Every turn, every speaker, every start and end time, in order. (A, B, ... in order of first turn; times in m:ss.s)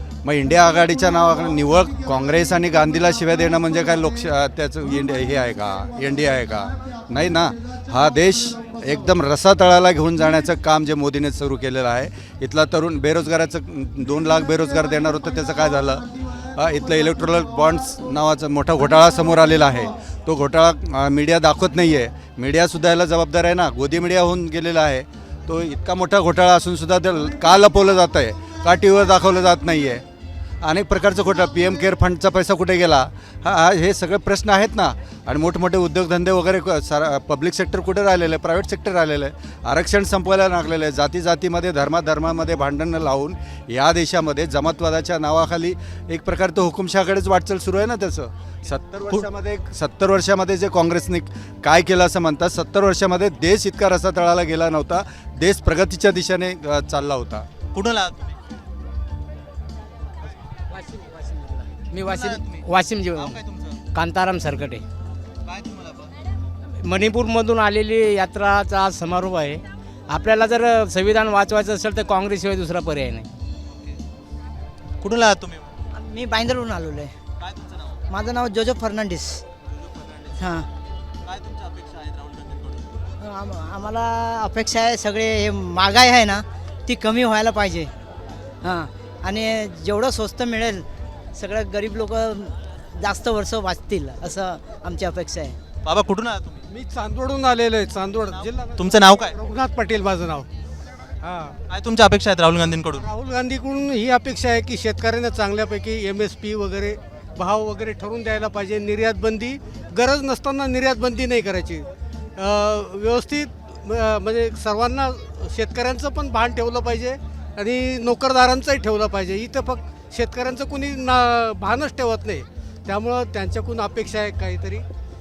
0:00.2-0:30.0 A
0:30.6-0:57.5 A
0:57.7-0:58.4 B
1:00.7-1:03.4 C
1:02.0-1:03.8 B
1:03.9-1:04.8 C
1:05.5-1:06.1 B
1:06.8-1:13.3 C
1:15.0-1:15.7 B
1:15.9-1:17.1 D
1:17.4-1:18.0 B
1:18.1-1:19.4 D
1:19.8-1:20.3 B
1:20.4-1:20.7 D
1:21.2-1:23.0 B
1:23.2-1:27.9 D
1:28.6-1:35.6 D
1:35.8-1:36.6 B
1:36.7-1:40.5 E
1:38.3-1:39.4 B
1:41.2-1:41.6 E
1:41.7-1:43.1 B
1:43.0-2:04.8 E